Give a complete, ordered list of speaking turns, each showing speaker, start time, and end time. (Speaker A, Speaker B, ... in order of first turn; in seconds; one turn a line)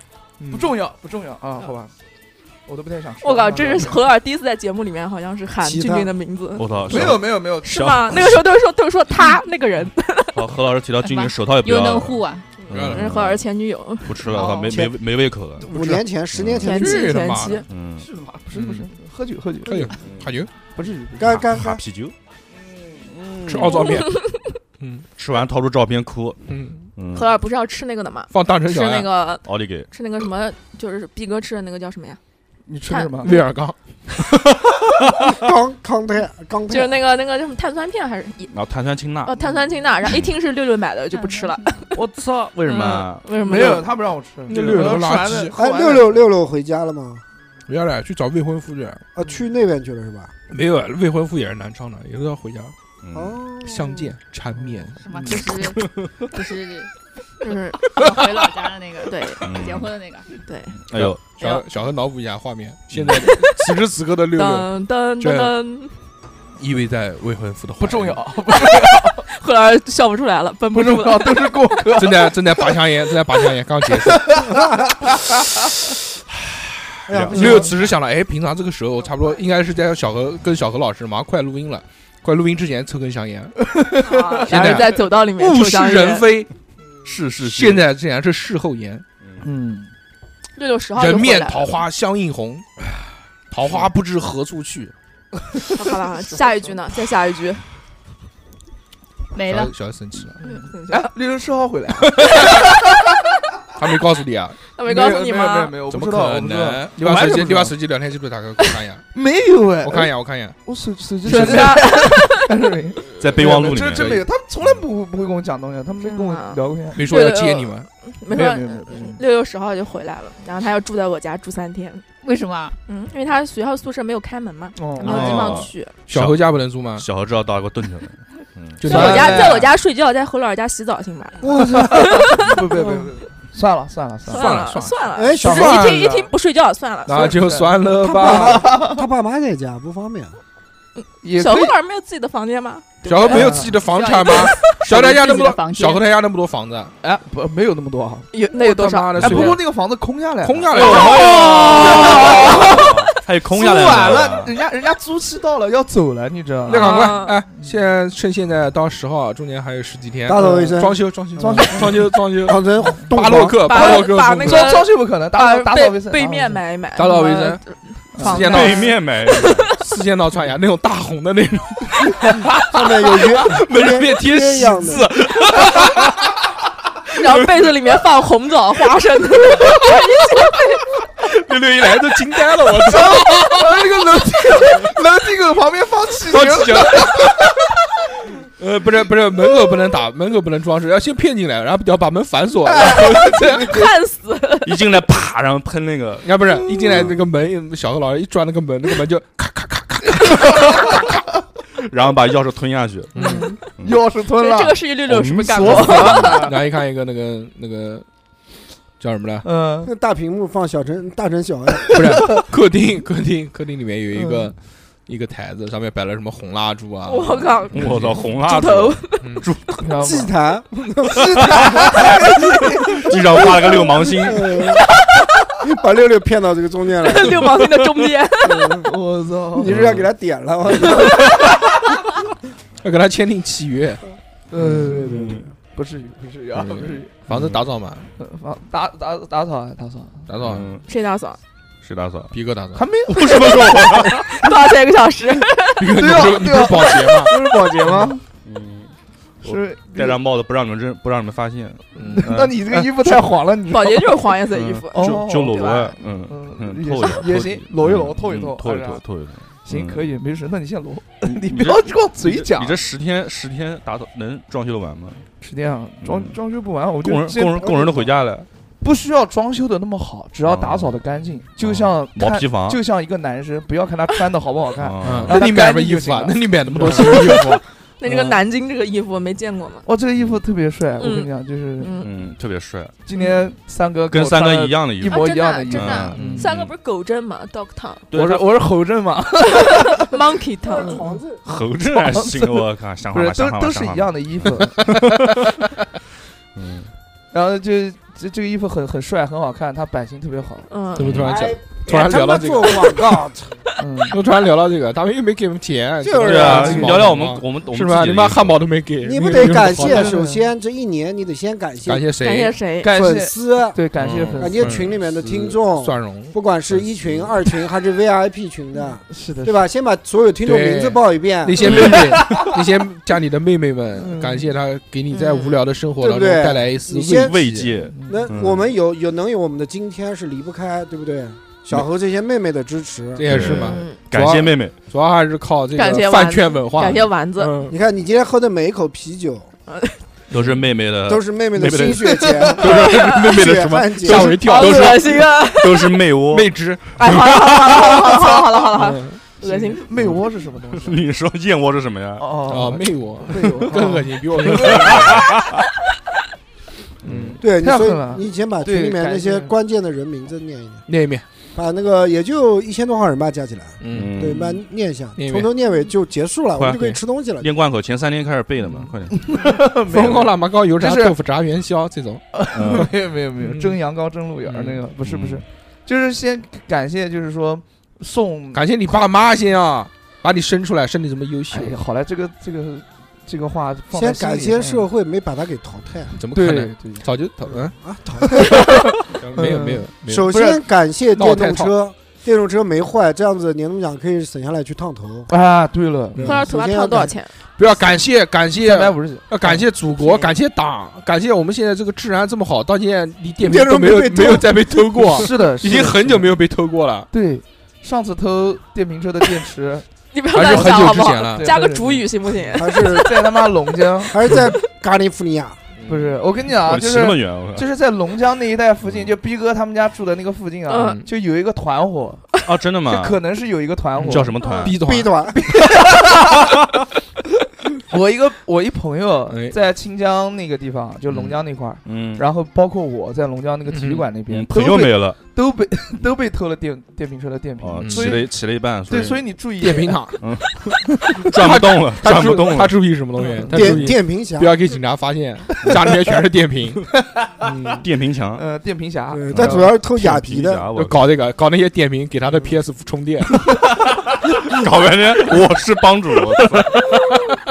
Speaker A: 0.4-1.9
Speaker A: 2.7-4.1
Speaker B: 3.2-6.7
Speaker C: 5.6-6.1
Speaker D: 6.6-8.4
Speaker A: 6.9-7.9
Speaker B: 7.6-10.5
Speaker D: 10.3-13.4
Speaker E: 11.0-12.5
Speaker B: 12.7-14.7
Speaker F: 12.7-13.1
Speaker D: 14.1-15.7
Speaker C: 14.6-15.0
Speaker C: 15.6-17.1
Speaker F: 15.7-16.0
Speaker D: 16.3-16.8
Speaker B: 16.6-17.7
Speaker F: 16.7-17.6
Speaker D: 17.7-18.1
Speaker A: 18.0-20.0
Speaker F: 18.5-18.9
Speaker F: 19.6-20.5
Speaker D: 20.0-20.3
Speaker A: 20.8-21.4
Speaker C: 21.2-21.8
Speaker D: 21.2-22.1
Speaker A: 22.5-23.2
Speaker D: 23.2-23.9
Speaker F: 23.5-24.2
Speaker B: 23.7-24.4
Speaker F: 24.8-25.1
Speaker D: 25.2-26.4
Speaker F: 26.5-26.9
Speaker D: 27.0-27.3
Speaker B: 27.1-32.2
Speaker F: 28.3-29.1
Speaker D: 29.4-29.9
Speaker A: 32.7-33.4
Speaker B: 32.9-33.4
Speaker F: 33.2-33.8
Speaker C: 35.2-37.0
Speaker B: 36.7-38.5
Speaker D: 38.5-39.4
Speaker B: 39.2-42.0
Speaker E: 41.1-41.9
Speaker D: 42.0-43.3
Speaker B: 42.6-43.9
Speaker A: 43.4-46.3
Speaker F: 44.5-45.6
Speaker C: 45.5-47.2
Speaker F: 47.7-49.0
Speaker C: 49.1-50.3
Speaker F: 50.5-52.7
Speaker D: 53.0-53.4
Speaker C: 53.1-54.1
Speaker F: 53.6-55.8
Speaker E: 55.0-56.9
Speaker B: 57.4-58.3
Speaker E: 57.9-60.3
Speaker B: 59.1-59.5
Speaker D: 59.4-59.9
Speaker B: 60.4-60.8
Speaker D: 60.8-61.2
Speaker F: 60.9-65.5
Speaker E: 61.4-61.7
Speaker D: 62.9-63.3
Speaker B: 63.3-63.6
Speaker B: 64.3-66.0
Speaker F: 66.6-68.2
Speaker A: 67.8-69.3
Speaker B: 68.5-71.6
Speaker A: 70.7-72.7
Speaker F: 72.0-74.5
Speaker A: 74.0-75.5
Speaker C: 77.1-77.8
Speaker D: 77.1-77.6
Speaker F: 77.3-83.7
Speaker A: 83.7-84.8
Speaker B: 84.0-86.3
Speaker F: 84.5-86.5
Speaker D: 87.0-87.9
Speaker F: 87.4-89.0
Speaker A: 89.4-89.9
Speaker B: 90.6-91.8
Speaker F: 91.0-92.7
Speaker F: 93.5-94.9
Speaker B: 95.7-97.6
Speaker E: 99.3-99.7
Speaker F: 99.5-100.4
Speaker A: 100.4-102.7
Speaker B: 100.4-101.1
Speaker F: 102.2-102.6
Speaker F: 103.8-104.6
Speaker B: 104.8-105.8
Speaker A: 104.8-107.8
Speaker F: 105.9-109.0
Speaker A: 109.1-110.1
Speaker F: 109.8-110.6
Speaker A: 110.7-117.1
Speaker B: 111.2-112.5
Speaker F: 111.3-111.8
Speaker D: 113.2-114.8
Speaker B: 116.0-122.0
Speaker F: 116.9-117.9
Speaker A: 118.3-119.2
Speaker E: 122.2-122.8
Speaker B: 122.9-126.0
Speaker A: 124.8-125.7
Speaker D: 125.0-129.2
Speaker F: 126.1-127.1
Speaker F: 128.8-129.7
Speaker B: 128.8-133.0
Speaker A: 128.9-129.7
Speaker C: 131.4-132.3
Speaker A: 131.5-134.5
Speaker B: 134.3-137.5
Speaker F: 134.3-136.2
Speaker C: 135.1-135.9
Speaker A: 135.6-136.3
Speaker F: 137.1-138.6
Speaker A: 137.2-139.1
Speaker C: 138.0-140.3
Speaker B: 141.0-143.6
Speaker A: 141.2-141.8
Speaker F: 143.0-146.9
Speaker A: 143.2-143.8
Speaker E: 143.6-146.1
Speaker B: 144.4-144.8
Speaker A: 147.0-148.3
Speaker B: 148.3-149.5
Speaker F: 148.5-149.6
Speaker A: 149.2-157.7
Speaker D: 149.2-149.5
Speaker F: 150.4-152.3
Speaker B: 150.7-153.2
Speaker D: 150.8-154.5
Speaker F: 156.7-164.8
Speaker B: 156.7-157.4
Speaker C: 160.3-163.7
Speaker A: 160.4-160.7
Speaker A: 161.4-162.0
Speaker B: 163.5-169.8
Speaker A: 163.7-166.6
Speaker F: 166.9-167.6
Speaker A: 168.2-168.8
Speaker F: 168.2-168.9
Speaker D: 168.4-169.7
Speaker F: 169.8-176.2
Speaker C: 172.6-175.1
Speaker B: 177.1-180.9
Speaker F: 177.2-177.5
Speaker F: 181.2-183.9
Speaker A: 182.9-187.4
Speaker F: 186.3-187.5
Speaker F: 188.6-193.7
Speaker A: 192.7-193.9
Speaker B: 193.4-194.8
Speaker D: 194.6-197.2
Speaker F: 196.2-201.0
Speaker D: 201.8-204.0
Speaker F: 203.2-203.6
Speaker B: 203.2-203.8
Speaker A: 203.8-204.9
Speaker B: 204.3-206.5
Speaker D: 205.1-206.4
Speaker A: 205.6-206.6
Speaker F: 205.9-208.1
Speaker F: 209.0-209.5
Speaker A: 209.4-209.9
Speaker C: 209.8-212.0
Speaker F: 211.9-218.2
Speaker B: 217.1-219.8
Speaker D: 217.7-219.8
Speaker A: 219.8-220.3
Speaker C: 220.0-222.1
Speaker A: 221.1-223.7
Speaker D: 221.4-221.7
Speaker D: 222.9-224.8
Speaker C: 223.1-224.8
Speaker C: 225.6-227.6
Speaker B: 227.0-228.9
Speaker C: 228.4-228.9
Speaker A: 228.6-229.7
Speaker C: 229.5-231.5
Speaker D: 229.7-230.1
Speaker F: 232.8-234.0
Speaker A: 234.5-237.1
Speaker C: 234.8-235.5
Speaker D: 235.1-235.4
Speaker F: 237.3-238.1
Speaker D: 237.3-237.6
Speaker A: 238.2-240.3
Speaker F: 240.3-240.7
Speaker D: 240.4-240.9
Speaker B: 240.9-241.4
Speaker D: 241.8-242.3
Speaker F: 242.3-242.8
Speaker A: 242.8-244.1
Speaker D: 243.1-244.2
Speaker B: 243.3-246.0
Speaker F: 245.8-248.1
Speaker A: 245.9-248.2
Speaker D: 248.4-252.8
Speaker A: 249.4-250.2
Speaker F: 251.9-252.3
Speaker A: 252.1-254.3
Speaker B: 253.7-256.0
Speaker D: 254.5-260.1
Speaker A: 254.9-259.0
Speaker A: 259.6-262.8
Speaker D: 261.3-265.3
Speaker A: 265.4-268.0
Speaker D: 266.0-266.4
Speaker D: 267.0-268.5
Speaker A: 268.8-277.4
Speaker D: 270.5-270.9
Speaker D: 271.6-272.8
Speaker D: 274.8-275.4
Speaker F: 275.0-277.6
Speaker B: 275.4-275.8
Speaker B: 276.9-279.9
Speaker A: 279.9-282.0
Speaker B: 281.0-282.2
Speaker D: 282.0-282.9
Speaker A: 283.1-286.5
Speaker D: 284.1-286.7
Speaker B: 285.0-288.1
Speaker F: 286.1-286.5
Speaker D: 288.1-288.4
Speaker A: 288.1-290.1
Speaker B: 289.6-291.1
Speaker C: 290.7-291.4
Speaker A: 290.7-291.1
Speaker D: 291.4-295.3
Speaker A: 291.9-294.9
Speaker D: 296.6-296.9
Speaker A: 297.3-300.7
Speaker B: 300.7-301.3
Speaker F: 301.0-303.0
Speaker D: 301.0-301.3
Speaker C: 301.2-303.6
Speaker A: 303.8-304.2
Speaker F: 304.1-310.1
Speaker C: 306.0-307.0
Speaker D: 306.2-308.6
Speaker A: 306.4-307.1
Speaker C: 309.0-312.1
Speaker A: 309.6-310.5
Speaker F: 311.9-312.6
Speaker B: 312.2-312.9
Speaker A: 312.8-314.8
Speaker C: 312.9-313.8
Speaker F: 314.0-316.9
Speaker C: 314.4-321.8
Speaker A: 319.1-319.6
Speaker F: 320.4-327.7
Speaker A: 321.6-322.5
Speaker D: 321.6-322.1
Speaker A: 324.0-324.5
Speaker B: 325.1-325.6
Speaker C: 326.0-333.3
Speaker D: 327.2-328.7
Speaker A: 327.8-328.3
Speaker F: 333.2-337.8
Speaker D: 333.2-334.8
Speaker B: 333.5-334.0
Speaker B: 335.7-337.7
Speaker C: 337.7-339.5
Speaker B: 339.7-340.0
Speaker D: 340.3-342.2
Speaker C: 341.1-344.7
Speaker A: 342.1-342.6
Speaker F: 342.6-345.3
Speaker B: 342.8-343.3
Speaker B: 344.1-346.0
Speaker D: 345.6-346.5
Speaker F: 346.3-348.1
Speaker B: 347.0-349.8
Speaker F: 348.8-349.2
Speaker A: 349.4-351.0
Speaker D: 350.8-352.3
Speaker A: 352.2-355.2
Speaker F: 352.5-355.2
Speaker D: 354.6-355.6
Speaker D: 357.0-357.4
Speaker F: 357.0-357.4
Speaker C: 357.4-360.9
Speaker A: 357.6-359.5
Speaker F: 360.9-361.2
Speaker C: 361.5-367.5
Speaker F: 363.8-364.5
Speaker D: 363.9-364.5
Speaker F: 365.2-365.5
Speaker D: 366.6-369.3
Speaker A: 369.2-371.2
Speaker F: 369.9-372.9
Speaker A: 372.3-378.7
Speaker D: 372.5-372.9
Speaker F: 373.4-373.8
Speaker F: 374.5-374.8
Speaker D: 375.0-375.4
Speaker F: 378.5-381.8
Speaker A: 381.5-384.9
Speaker C: 383.9-386.1
Speaker F: 386.2-387.8
Speaker A: 386.3-387.1
Speaker C: 387.5-388.7
Speaker A: 388.4-390.5
Speaker F: 389.0-390.6
Speaker C: 390.1-395.3
Speaker F: 391.1-391.8
Speaker A: 395.3-396.4
Speaker F: 396.1-396.4
Speaker B: 396.2-397.3
Speaker C: 396.2-397.1
Speaker F: 397.6-407.1
Speaker A: 398.6-399.6
Speaker B: 400.0-400.3
Speaker C: 403.4-405.2
Speaker A: 405.1-406.3
Speaker A: 407.1-409.9
Speaker B: 410.1-413.2
Speaker F: 410.3-411.5
Speaker A: 410.5-414.2
Speaker C: 412.6-413.1
Speaker C: 414.1-415.6
Speaker F: 415.8-416.2
Speaker A: 415.9-422.3
Speaker D: 416.6-417.7
Speaker D: 418.9-419.1
Speaker B: 420.7-421.1
Speaker D: 422.5-423.2
Speaker A: 422.9-424.4
Speaker F: 424.0-425.2
Speaker D: 424.0-424.8
Speaker B: 424.4-424.7
Speaker C: 424.8-425.5
Speaker A: 425.4-426.6
Speaker A: 427.8-440.0
Speaker F: 429.3-429.6
Speaker D: 431.9-432.2
Speaker F: 433.7-434.1
Speaker D: 434.3-435.2
Speaker D: 437.6-439.3
Speaker F: 437.8-438.2
Speaker F: 439.6-440.2
Speaker D: 440.2-442.8
Speaker F: 441.2-446.9
Speaker A: 443.2-443.8
Speaker C: 443.5-444.5
Speaker A: 447.0-447.5
Speaker F: 447.4-447.8
Speaker D: 447.8-448.4
Speaker A: 448.4-449.6
Speaker C: 449.1-450.7
Speaker D: 449.3-451.0
Speaker F: 450.7-453.4
Speaker D: 454.2-457.0